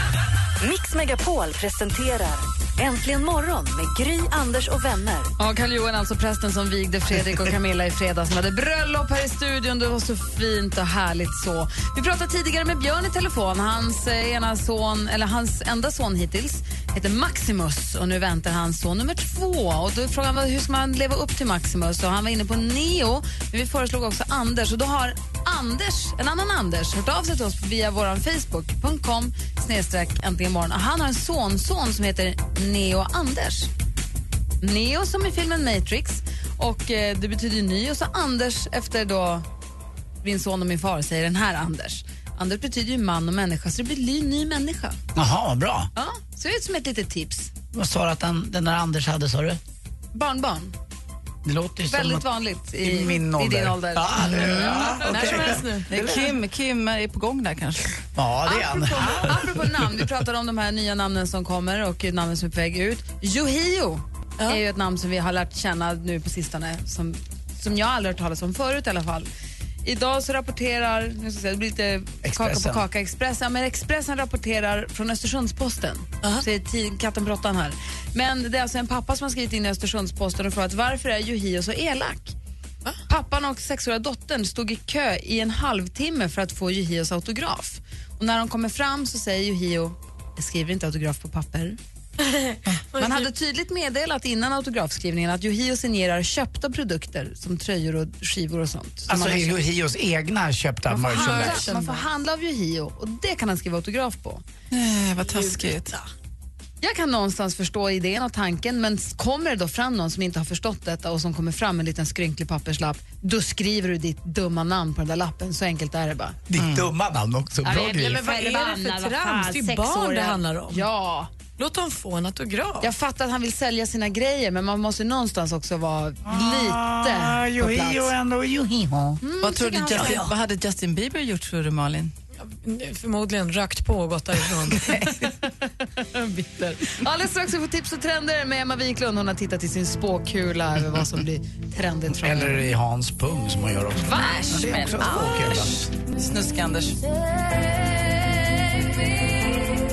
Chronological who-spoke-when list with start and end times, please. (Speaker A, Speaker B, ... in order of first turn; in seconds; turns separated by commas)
Speaker A: 0.6-5.3, Speaker B: 5.4-33.7, Speaker B: 34.6-39.5, Speaker B: 40.2-45.0, Speaker C: 45.1-45.9, Speaker B: 46.0-47.5, Speaker C: 47.7-49.6, Speaker B: 50.1-50.7, Speaker C: 51.4-52.3, Speaker B: 51.9-54.4, Speaker C: 52.8-56.2, Speaker D: 54.3-58.0, Speaker E: 55.0-55.9, Speaker C: 58.1-59.6, Speaker B: 58.5-69.3, Speaker B: 69.8-82.3, Speaker C: 72.2-72.8, Speaker B: 83.1-91.8, Speaker E: 92.3-93.3, Speaker B: 93.0-99.6, Speaker C: 99.1-101.7, Speaker B: 100.9-104.4, Speaker E: 101.0-102.0, Speaker D: 104.7-105.9, Speaker B: 106.8-116.4, Speaker C: 116.5-118.3, Speaker D: 116.6-116.9, Speaker B: 117.6-121.3, Speaker E: 117.7-120.9, Speaker E: 121.6-122.9, Speaker B: 122.8-128.1, Speaker C: 126.2-129.2, Speaker B: 129.2-130.3, Speaker D: 129.4-132.1, Speaker E: 132.4-135.0, Speaker B: 135.9-142.6, Speaker C: 142.2-145.8, Speaker B: 144.0-144.8, Speaker D: 144.2-147.0